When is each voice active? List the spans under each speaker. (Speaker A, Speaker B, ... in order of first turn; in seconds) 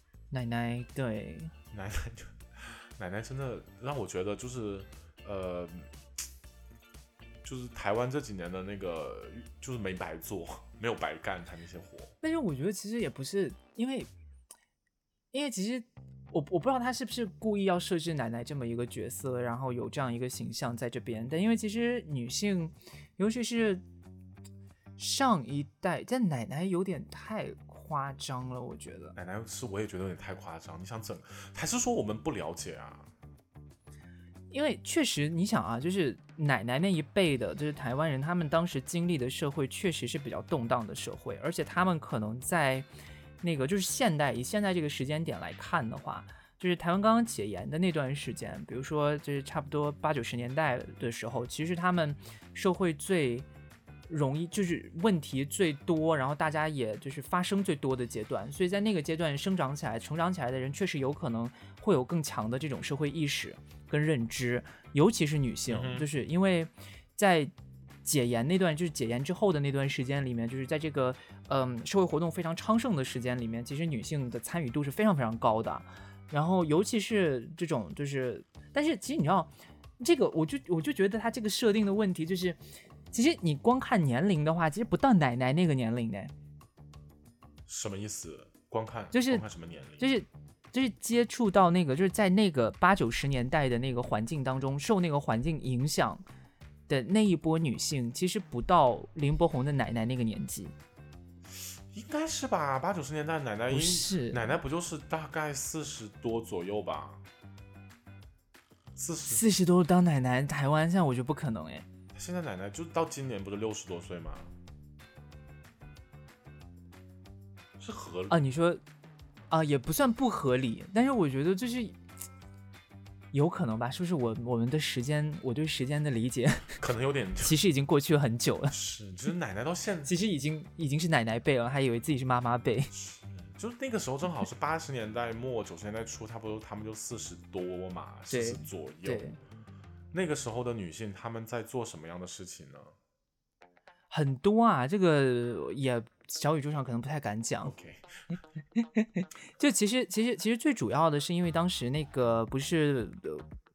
Speaker A: 0.3-1.5, 12.2-14.1, 15.3-23.8, 25.0-29.2, 34.5-42.9, 43.4-53.5, 54.1-67.5, 68.0-82.6, 83.1-86.3, 89.1-89.5, 90.0-96.2, 96.9-100.7, 103.7-104.5, 109.3-111.9, 118.3-118.8, 119.5-122.0, 123.3-126.8, 127.4-128.8, 130.1-132.9, 138.3-139.4, 144.1-147.7, 148.8-153.4
Speaker B: 1.7-5.9, 7.4-12.2, 29.2-33.1, 65.7-66.1, 87.7-90.1, 101.5-107.2, 109.0-109.4, 112.1-114.5, 117.8-118.4, 126.8-127.6, 128.7-130.1, 132.9-139.2, 140.1-142.9, 147.7-148.2